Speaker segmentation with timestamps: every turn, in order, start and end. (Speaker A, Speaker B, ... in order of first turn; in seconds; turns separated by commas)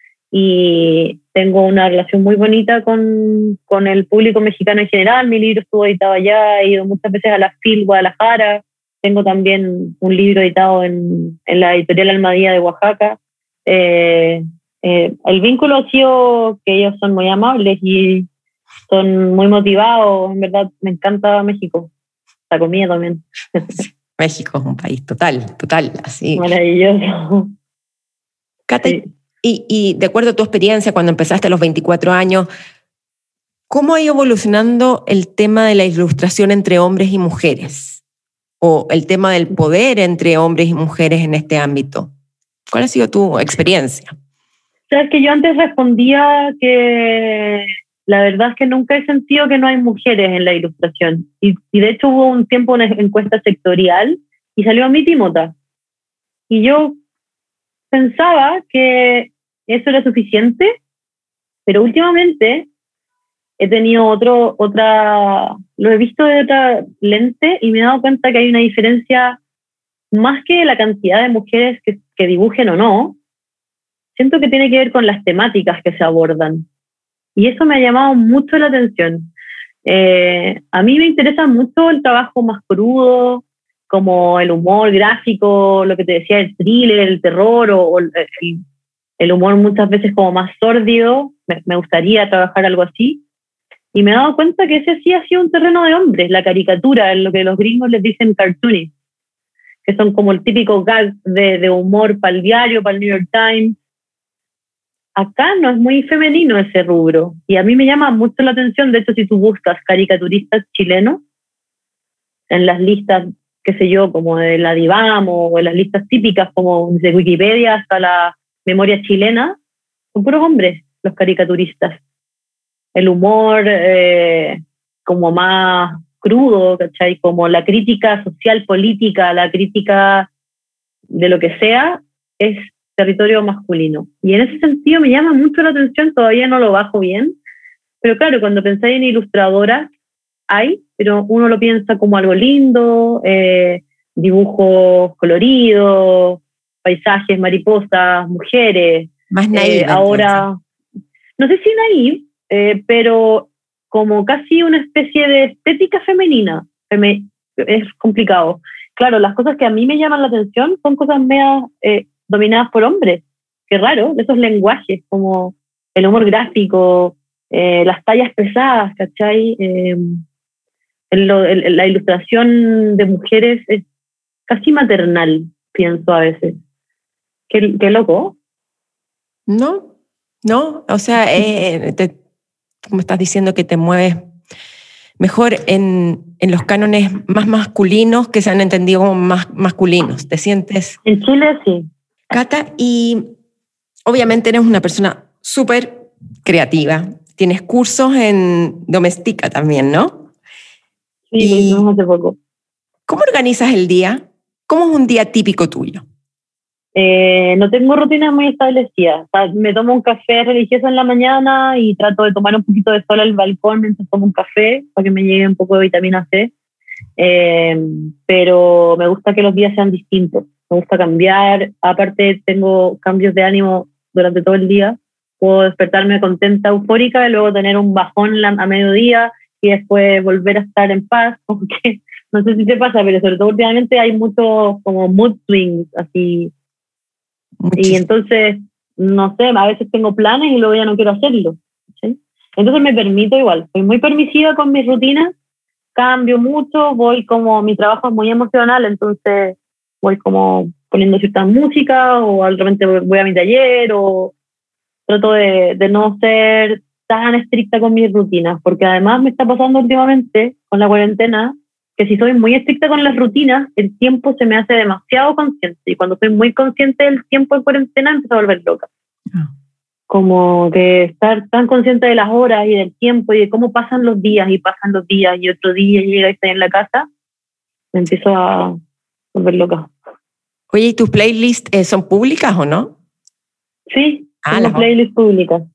Speaker A: 0.3-18.3, Speaker A: 18.9-21.9, Speaker A: 22.5-23.7, Speaker B: 24.2-26.5, Speaker A: 26.4-27.5, Speaker B: 28.7-32.5, Speaker B: 33.7-38.0, Speaker B: 38.6-42.1, Speaker B: 42.7-44.1, Speaker A: 44.9-55.5, Speaker A: 56.5-57.0, Speaker A: 57.9-60.7, Speaker A: 61.7-62.7, Speaker A: 63.6-69.4, Speaker A: 70.1-73.2, Speaker A: 74.2-76.7, Speaker A: 77.4-79.3, Speaker A: 79.9-88.6, Speaker A: 89.2-93.2, Speaker A: 93.9-98.9, Speaker A: 99.8-103.8, Speaker A: 105.2-111.2, Speaker A: 112.5-119.6, Speaker A: 120.2-122.0, Speaker A: 123.0-130.3, Speaker A: 131.2-137.4, Speaker A: 138.0-139.9, Speaker A: 140.5-150.6, Speaker B: 149.3-150.4, Speaker A: 151.4-170.2, Speaker A: 171.1-173.8, Speaker A: 174.5-176.6, Speaker A: 177.5-178.4, Speaker B: 179.5-179.9, Speaker B: 180.4-182.1, Speaker B: 182.8-184.2, Speaker B: 185.2-191.0, Speaker A: 191.1-191.9, Speaker B: 192.3-193.3, Speaker B: 194.1-200.3, Speaker A: 201.3-202.4, Speaker B: 201.4-201.8, Speaker B: 203.1-206.1, Speaker A: 206.9-216.5, Speaker A: 217.2-236.5, Speaker B: 237.6-238.0, Speaker A: 237.8-245.3, Speaker A: 245.9-254.3, Speaker A: 255.1-268.9, Speaker A: 270.1-277.1, Speaker A: 277.9-278.8, Speaker A: 279.3-279.9, Speaker B: 280.7-282.9, Speaker A: 283.9-285.6, Speaker B: 284.4-284.9